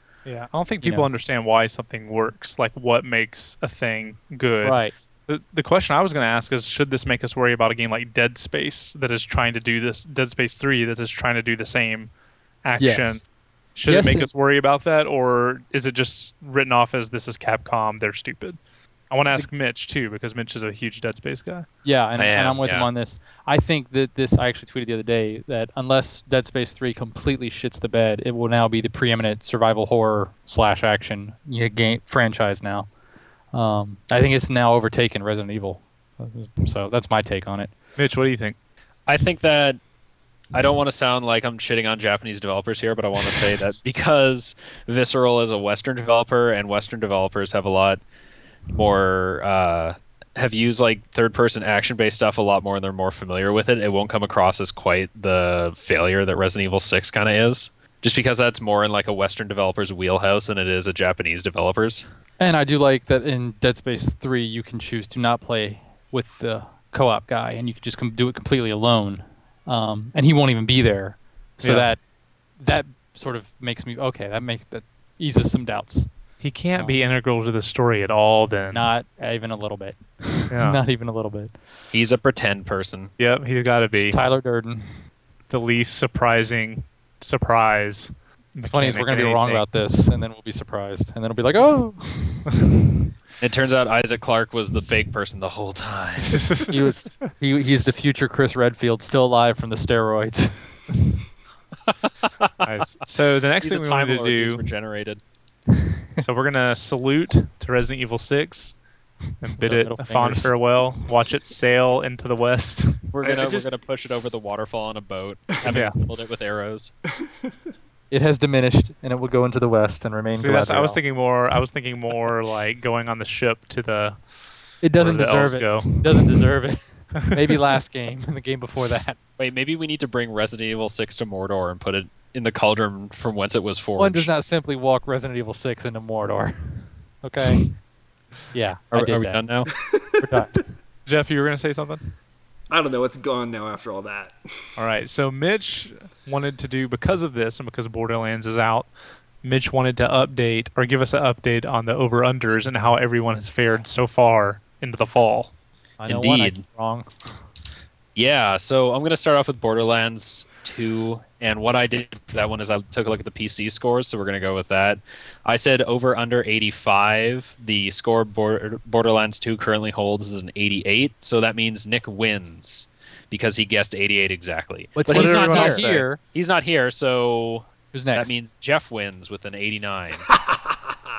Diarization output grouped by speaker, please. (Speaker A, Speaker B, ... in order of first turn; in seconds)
Speaker A: 0.2-12.1, 12.6-13.2, 13.8-18.6, 19.1-21.6, 38.0-38.5, 71.6-71.9, 76.4-78.9, 80.5-80.8, 83.2-84.2, 85.5-89.6, 96.3-96.8, 102.6-104.6, 106.2-108.8, 109.4-113.0, 115.6-115.9, 120.3-124.2, 125.0-126.4, 141.1-142.1, 144.8-148.9, 149.4-155.5, 175.1-176.1
Speaker B: 4.6-4.9, 12.8-13.2, 13.9-14.3, 21.8-32.9, 33.5-37.7, 62.4-72.0, 72.6-76.1, 78.7-81.5, 84.0-84.9, 88.6-92.5, 96.7-100.7, 109.6-110.5, 118.1-121.0, 124.8-129.2, 134.0-137.6, 138.5-139.7, 140.2-140.5, 156.0-157.1, 174.9-176.2, 177.9-178.3
Speaker C: 22.2-22.9, 39.1-39.8, 40.5-48.0, 48.7-62.0, 81.9-83.1, 93.4-96.5, 101.9-102.5, 103.6-105.2, 113.1-116.9, 129.4-134.3, 138.9-139.7, 156.1-156.6, 158.1-180.3
Speaker D: 113.2-113.7, 139.9-140.4, 142.7-144.4